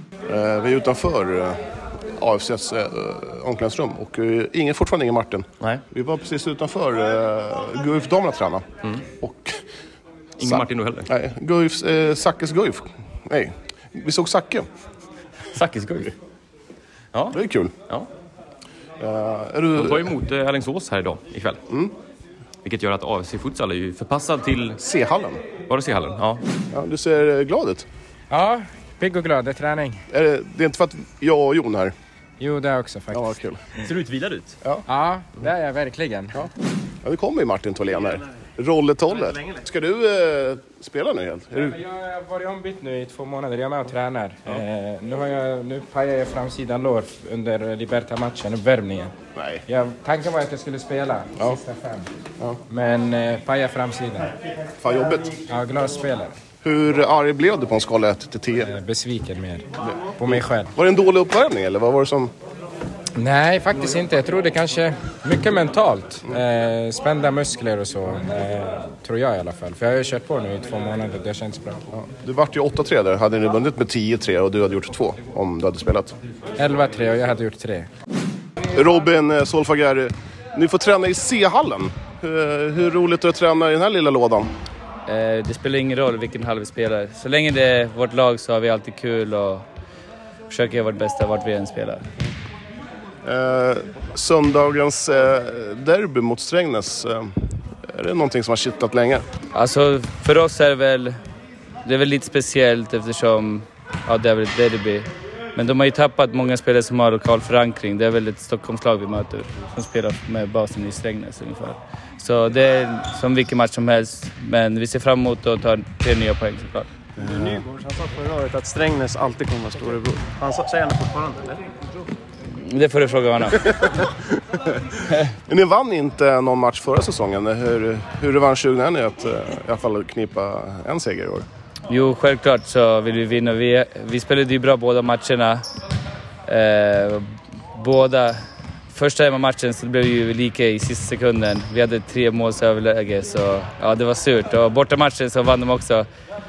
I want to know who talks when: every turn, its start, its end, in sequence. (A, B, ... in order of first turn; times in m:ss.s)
0:00.3-0:09.6 A
0:10.4-0:11.1 B
0:10.4-0:14.7 A
0:15.5-0:16.1 B
0:17.1-0:18.1 B
0:17.3-0:17.8 A
0:19.0-0:20.2 A
0:19.8-0:21.6 B
0:21.7-0:22.0 A
0:22.6-0:24.8 B
0:24.8-0:25.4 A
0:25.6-0:26.4 B
0:26.7-0:27.9 A
0:28.3-0:30.0 C
0:30.1-0:31.9 A
0:32.4-0:33.3 C
0:33.1-0:33.6 A
0:33.8-0:34.6 B
0:34.9-0:36.3 C
0:37.0-0:41.8 A
0:41.5-0:52.1 C
0:49.4-0:49.6 A
0:52.7-0:54.3 C
0:54.8-0:55.4 A
0:55.5-0:56.4 C
0:56.6-0:58.7 A
0:58.6-1:00.7 C
0:59.8-1:02.3 A
1:03.2-1:11.8 C
1:11.9-1:16.2 A
1:16.6-1:17.9 C
1:18.7-1:24.5 A
1:25.1-1:29.6 D
1:30.5-1:32.0 D
1:33.2-1:39.2 A
1:39.5-1:41.2 D
1:41.8-1:56.9 D
1:57.2-2:01.6 E
2:02.4-2:03.9 D
2:05.5-2:11.5 A
2:11.9-2:15.6 D
2:16.5-2:26.1 D